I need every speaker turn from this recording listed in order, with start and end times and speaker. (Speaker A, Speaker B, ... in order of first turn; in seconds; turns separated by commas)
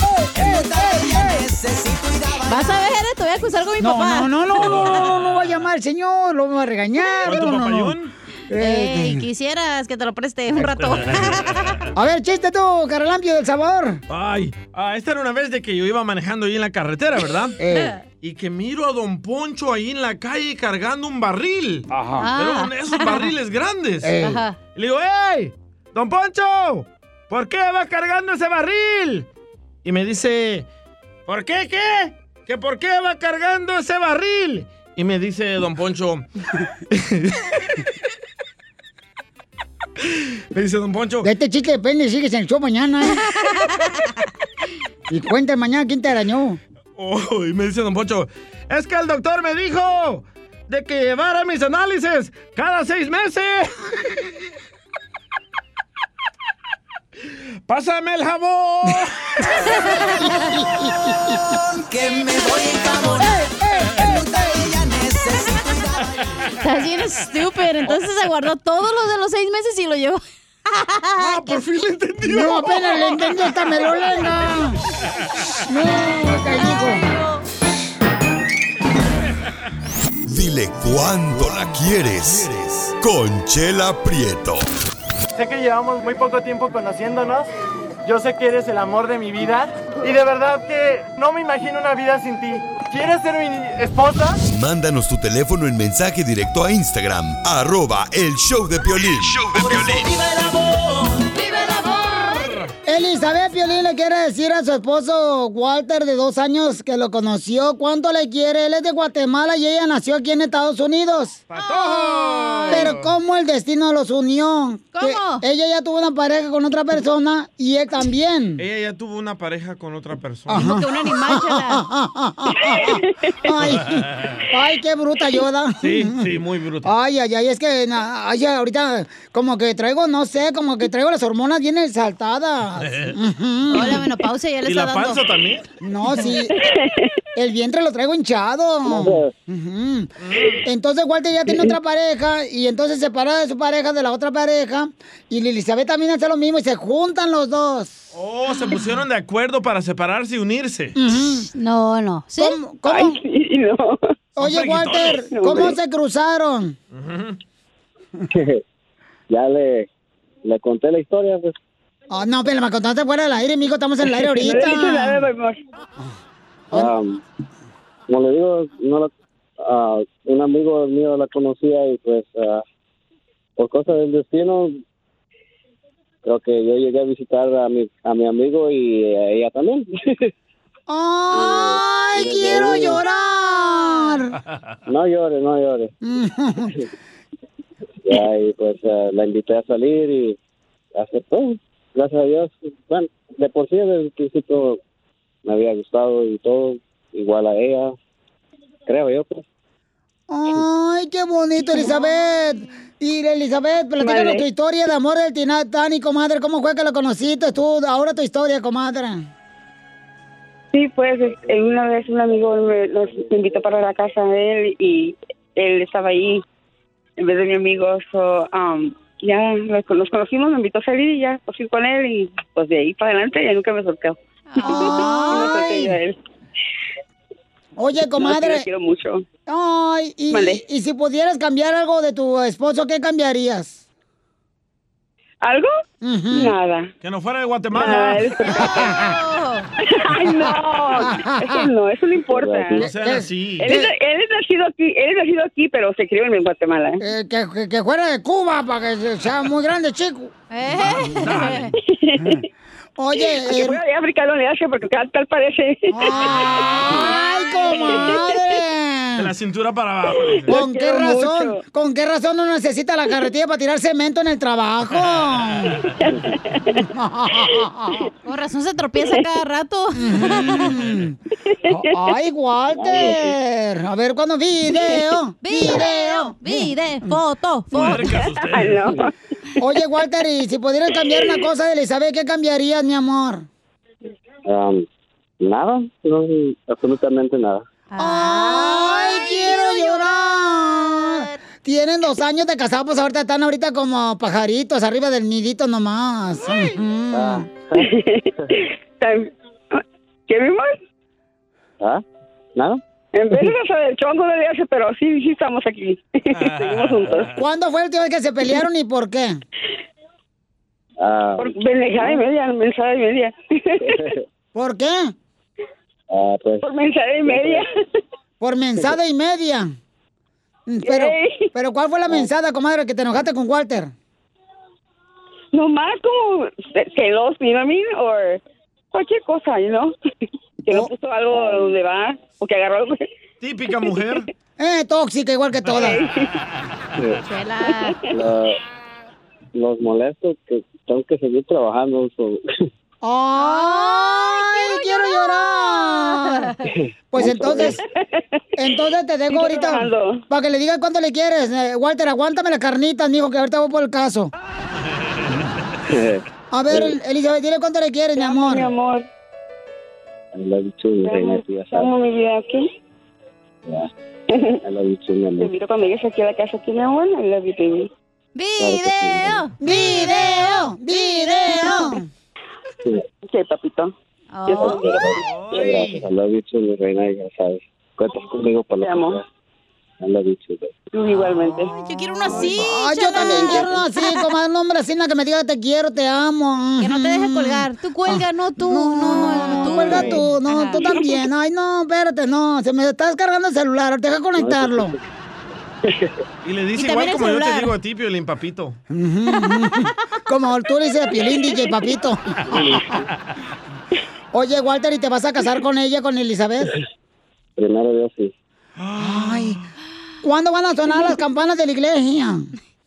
Speaker A: 0.2-1.4, Speaker B: 1.6-2.1, Speaker C: 2.4-5.1, Speaker A: 3.8-8.0, Speaker D: 7.2-8.1, Speaker A: 8.5-9.2, Speaker C: 8.6-11.8, Speaker D: 10.7-11.8, Speaker A: 11.9-14.0, Speaker D: 14.1-17.6, Speaker A: 17.6-17.9, Speaker D: 18.1-29.3, Speaker A: 21.9-22.3, Speaker C: 22.2-23.3, Speaker A: 24.0-24.4, Speaker C: 24.2-24.6, Speaker D: 29.9-30.7, Speaker D: 31.3-36.2, Speaker D: 36.9-37.4, Speaker D: 40.5-41.3, Speaker A: 41.2-43.3, Speaker A: 45.1-46.6, Speaker D: 47.0-53.7, Speaker D: 57.7-59.2, Speaker C: 59.7-60.4, Speaker A: 60.4-61.4, Speaker B: 61.8-63.1, Speaker A: 63.3-64.2, Speaker B: 64.6-65.8, Speaker C: 66.6-71.6, Speaker D: 71.2-73.3, Speaker A: 72.2-74.8, Speaker A: 75.7-77.0, Speaker C: 76.8-77.2, Speaker E: 80.3-84.7, Speaker F: 85.4-87.5, Speaker F: 88.0-94.4, Speaker E: 94.5-100.2, Speaker C: 101.3-102.5, Speaker A: 102.8-111.4, Speaker D: 111.5-113.1, Speaker C: 111.6-112.9, Speaker A: 112.7-118.6, Speaker C: 114.9-115.4, Speaker D: 118.6-120.7, Speaker A: 120.5-126.3, Speaker C: 120.5-121.8, Speaker G: 122.7-123.1, Speaker D: 123.8-124.4, Speaker D: 125.8-126.9, Speaker A: 126.8-134.1, Speaker C: 133.7-135.2, Speaker D: 134.7-135.6, Speaker A: 135.8-136.5, Speaker G: 136.6-137.1, Speaker A: 137.4-140.1, Speaker H: 138.9-139.3, Speaker D: 140.2-140.6, Speaker A: 140.6-148.1, Speaker D: 148.1-151.0, Speaker A: 150.9-151.5, Speaker C: 151.5-152.6, Speaker A: 152.4-153.2, Speaker G: 152.8-154.0, Speaker A: 154.4-156.8, Speaker D: 154.4-155.3, Speaker G: 155.4-155.7, Speaker D: 156.9-157.4, Speaker H: 158.3-158.6, Speaker H: 159.3-159.9, Speaker H: 160.4-161.5, Speaker A: 162.1-165.2, Speaker G: 164.3-165.6, Speaker H: 166.7-167.2, Speaker H: 168.1-172.6, Speaker H: 173.6-174.8, Speaker H: 176.2-180.3, Speaker A: 180.9-184.4, Speaker H: 181.3-183.0, Speaker C: 183.6-184.0, Speaker H: 184.9-185.9, Speaker A: 186.0-186.8, Speaker H: 188.1-190.4, Speaker H: 190.9-194.8, Speaker H: 195.4-197.9, Speaker H: 198.9-199.4, Speaker A: 200.3-209.3, Speaker G: 204.0-204.4, Speaker G: 210.7-216.4, Speaker G: 217.2-224.2, Speaker C: 224.5-225.6, Speaker A: 224.6-226.0, Speaker G: 224.7-226.2, Speaker A: 227.8-228.7, Speaker G: 228.2-229.2, Speaker A: 229.5-233.8, Speaker G: 230.3-230.6, Speaker G: 235.4-235.7, Speaker A: 236.0-236.5, Speaker G: 236.3-236.9, Speaker D: 237.0-238.2, Speaker G: 237.7-238.8, Speaker C: 238.4-239.7, Speaker A: 238.6-239.2, Speaker G: 239.9-242.8, Speaker A: 241.0-241.7, Speaker H: 242.3-242.9, Speaker A: 242.8-243.9, Speaker D: 242.8-243.7, Speaker G: 243.7-247.0, Speaker A: 247.0-251.3, Speaker C: 250.5-251.7, Speaker D: 251.0-251.7, Speaker G: 251.9-252.4, Speaker A: 253.0-253.8, Speaker G: 253.2-256.7, Speaker A: 255.9-259.3, Speaker G: 257.8-258.3, Speaker D: 259.2-260.6, Speaker A: 260.5-265.8, Speaker G: 260.5-261.6, Speaker G: 266.0-266.8, Speaker A: 266.8-268.1, Speaker C: 268.2-270.8, Speaker A: 269.9-277.2, Speaker H: 272.7-273.4, Speaker C: 275.4-278.2, Speaker D: 277.7-278.9, Speaker G: 278.3-279.1, Speaker A: 279.6-283.5, Speaker H: 284.5-284.9, Speaker H: 285.4-287.6, Speaker C: 287.9-290.2, Speaker A: 288.0-297.5, Speaker C: 291.0-291.3, Speaker H: 297.1-298.5, Speaker G: 297.8-300.7, Speaker G: 303.1-307.3, Speaker D: 306.4-307.3, Speaker A: 307.4-309.4, Speaker H: 311.0-312.2, Speaker G: 311.4-313.7, Speaker H: 313.9-314.2, Speaker A: 314.6-315.1, Speaker H: 316.1-316.7, Speaker G: 316.6-317.6, Speaker H: 317.2-317.6, Speaker A: 318.4-319.8, Speaker A: 320.7-323.9, Speaker G: 320.9-321.5, Speaker G: 325.5-328.4, Speaker G: 328.9-329.9, Speaker G: 330.7-333.1, Speaker H: 331.3-331.8, Speaker D: 333.4-334.3, Speaker A: 334.6-336.0, Speaker G: 335.7-336.3, Speaker H: 337.0-337.2, Speaker C: 337.2-338.0, Speaker H: 338.1-338.6, Speaker H: 339.6-342.4, Speaker A: 343.0-346.6, Speaker C: 343.4-346.5, Speaker H: 346.7-347.8, Speaker A: 347.1-347.8, Speaker G: 347.7-348.2, Speaker A: 348.6-354.3, Speaker G: 349.3-350.2, Speaker H: 355.9-357.0, Speaker A: 356.5-358.7, Speaker G: 358.2-359.1, Speaker H: 360.3-361.9, Speaker G: 361.0-362.7, Speaker H: 364.6-365.5, Speaker G: 365.4-367.9, Speaker C: 368.4-372.0, Speaker H: 368.6-369.5, Speaker A: 369.6-372.1, Speaker G: 373.3-373.9, Speaker C: 374.3-374.9, Speaker G: 374.5-375.2, Speaker H: 374.6-379.2, Speaker D: 375.2-376.1, Speaker G: 378.8-379.2, Speaker H: 380.0-381.4, Speaker G: 380.9-381.7, Speaker C: 381.6-384.2, Speaker A: 382.3-394.9, Speaker C: 386.8-390.9, Speaker H: 389.9-390.2, Speaker H: 394.4-395.0, Speaker H: 395.9-396.1, Speaker D: 396.4-398.8, Speaker C: 396.8-397.7, Speaker A: 398.9-403.0, Speaker H: 402.5-402.8, Speaker A: 404.3-406.7, Speaker H: 407.6-408.3, Speaker D: 408.8-409.6, Speaker A: 409.0-409.6, Speaker A: 410.2-412.5